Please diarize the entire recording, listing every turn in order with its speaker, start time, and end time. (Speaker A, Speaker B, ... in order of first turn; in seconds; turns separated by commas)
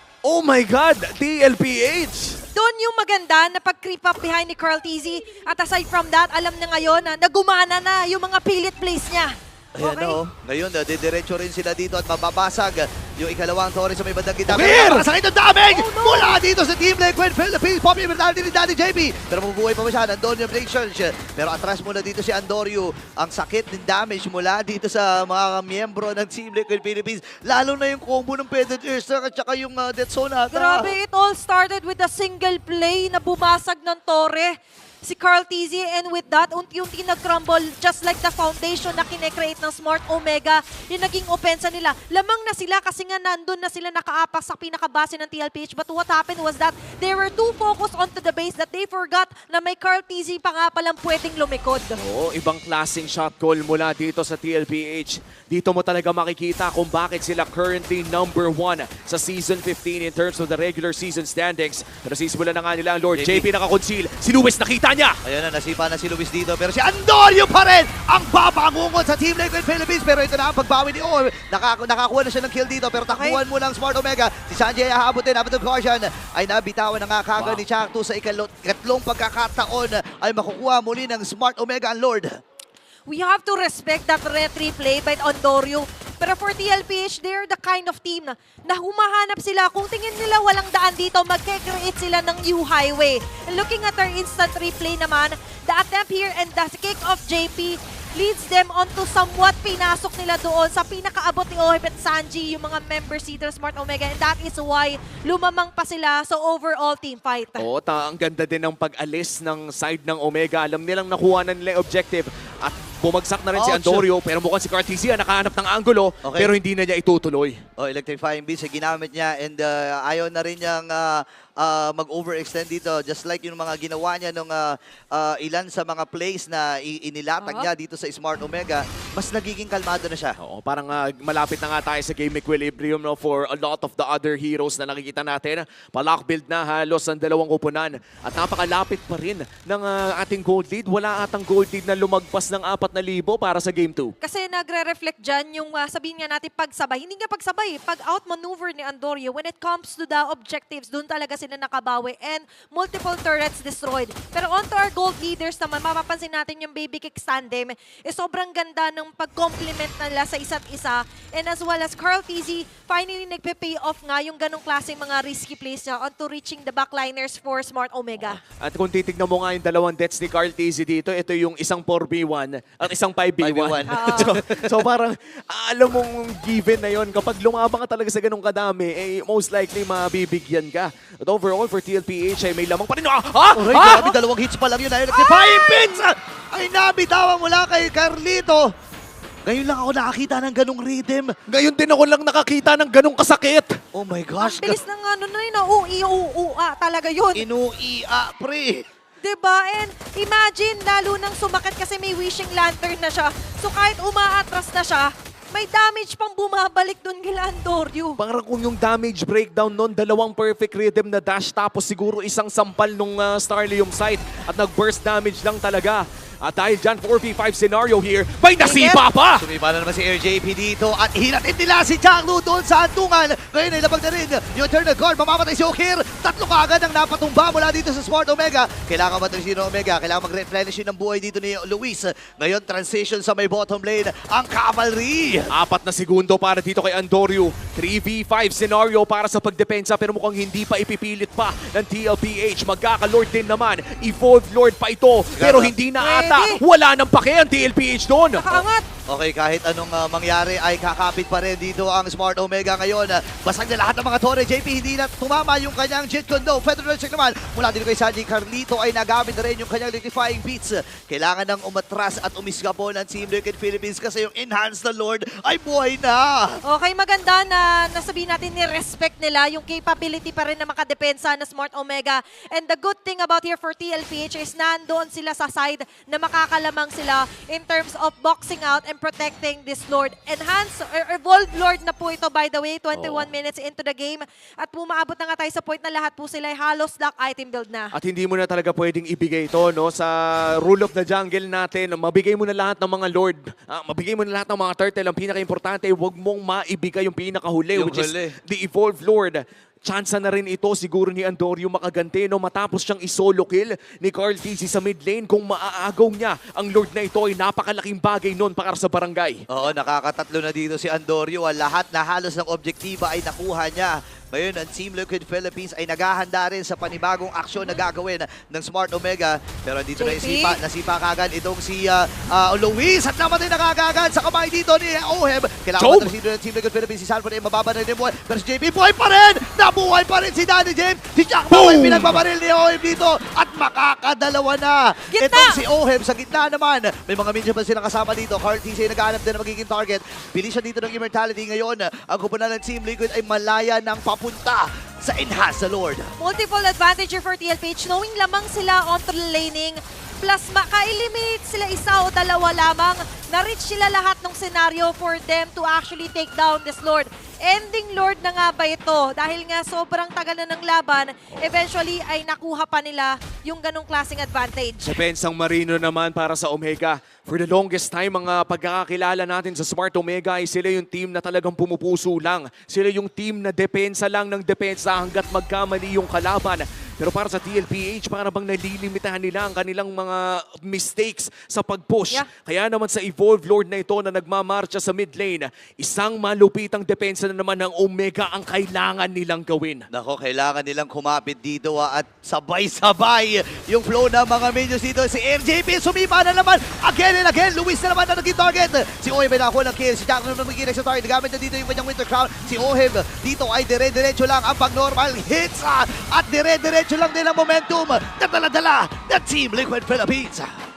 Speaker A: 0.2-2.4, Speaker B: 2.5-10.2, Speaker C: 9.8-30.9, Speaker A: 14.5-15.1, Speaker B: 15.7-16.4, Speaker B: 30.5-52.0, Speaker A: 52.0-65.2, Speaker C: 63.1-63.5, Speaker C: 65.2-82.3, Speaker B: 73.1-73.4, Speaker A: 77.4-77.6, Speaker B: 83.1-107.7, Speaker A: 107.6-117.6, Speaker C: 113.5-114.0, Speaker C: 116.2-116.5, Speaker C: 117.8-130.3, Speaker B: 127.4-127.7, Speaker A: 130.4-144.1, Speaker B: 144.2-168.4, Speaker A: 168.2-184.0, Speaker C: 173.4-174.6, Speaker B: 173.9-174.3, Speaker C: 183.5-188.7, Speaker B: 183.8-184.1, Speaker B: 185.1-186.0, Speaker C: 189.4-191.3, Speaker A: 191.5-193.8, Speaker C: 193.9-194.8, Speaker B: 194.4-197.4, Speaker C: 197.3-198.8, Speaker B: 199.2-208.2, Speaker A: 208.2-219.4, Speaker B: 218.6-219.0, Speaker C: 219.4-235.5, Speaker A: 235.5-248.6, Speaker C: 245.3-245.7, Speaker B: 246.0-246.6, Speaker B: 248.4-248.8, Speaker C: 249.1-266.4, Speaker B: 266.6-287.9, Speaker A: 282.9-283.3, Speaker A: 287.9-309.4, Speaker C: 297.7-298.4, Speaker C: 309.5-346.1, Speaker B: 320.0-320.6, Speaker A: 325.8-326.1, Speaker A: 331.5-332.2, Speaker B: 335.1-335.6, Speaker B: 346.2-364.9, Speaker A: 364.8-389.9, Speaker C: 389.9-410.5